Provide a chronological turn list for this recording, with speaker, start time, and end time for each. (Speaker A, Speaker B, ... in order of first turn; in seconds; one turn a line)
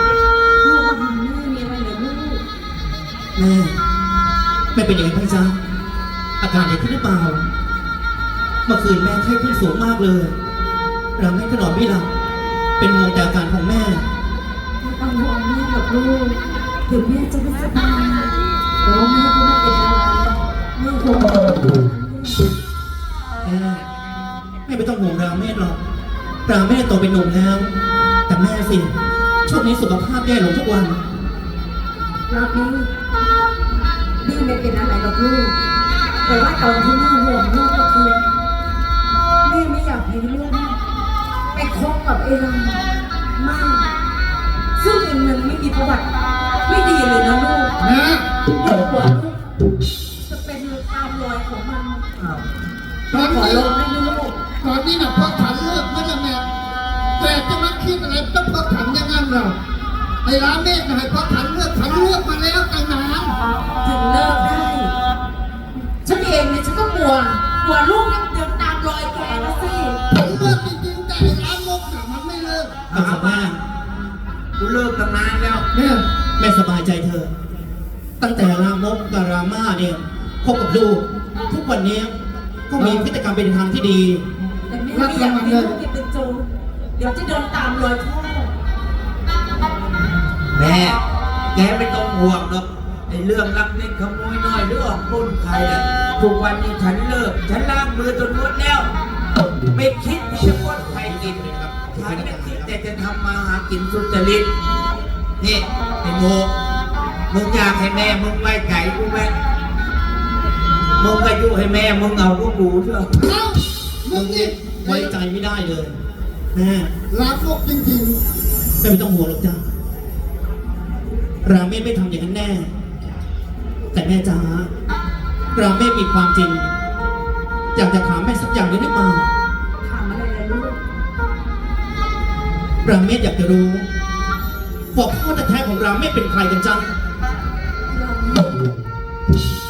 Speaker A: 0.6-2.4
Speaker B: 3.4-3.8
Speaker B: 4.7-5.6
Speaker B: 6.4-7.5
Speaker B: 8.7-10.3
Speaker B: 11.2-12.1
Speaker B: 12.8-14.1
Speaker A: 14.8-22.5
Speaker B: 23.4-23.8
Speaker B: 24.7-25.8
Speaker B: 26.5-27.7
Speaker B: 28.3-28.9
Speaker B: 29.4-31.0
Speaker A: 32.3-32.9
Speaker A: 34.2-35.5
Speaker A: 36.2-38.2
Speaker A: 39.4-40.8
Speaker A: 41.5-43.9
Speaker A: 44.8-46.1
Speaker A: 46.6-47.8
Speaker C: 47.8-48.3
Speaker A: 48.5-49.4
Speaker A: 50.2-52.0
Speaker D: 52.2-52.5
Speaker A: 53.1-54.4
Speaker C: 53.1-53.7
Speaker C: 54.6-56.4
Speaker C: 57.2-59.6
Speaker C: 60.2-63.4
Speaker A: 63.8-65.0
Speaker A: 66.0-70.0
Speaker C: 70.1-72.8
Speaker D: 72.9-73.3
Speaker B: 72.9-73.6
Speaker D: 74.6-75.7
Speaker C: 75.7-76.1
Speaker B: 76.4-77.3
Speaker B: 78.2-82.1
Speaker B: 82.7-84.2
Speaker C: 82.8-83.1
Speaker A: 84.7-88.5
Speaker C: 84.9-85.8
Speaker D: 90.5-91.0
Speaker D: 91.5-98.9
Speaker D: 99.7-104.5
Speaker B: 100.8-102.8
Speaker D: 105.4-106.5
Speaker D: 107.3-109.4
Speaker D: 111.0-113.1
Speaker C: 113.2-115.1
Speaker B: 114.1-116.0
Speaker B: 116.5-116.9
Speaker C: 117.1-118.2
Speaker B: 118.8-119.6
Speaker B: 121.4-122.7
Speaker B: 123.9-124.7
Speaker B: 125.5-126.7
Speaker B: 127.8-129.3
Speaker A: 129.8-130.8
Speaker B: 132.8-133.9
Speaker B: 134.9-136.9
Speaker A: 137.9-138.6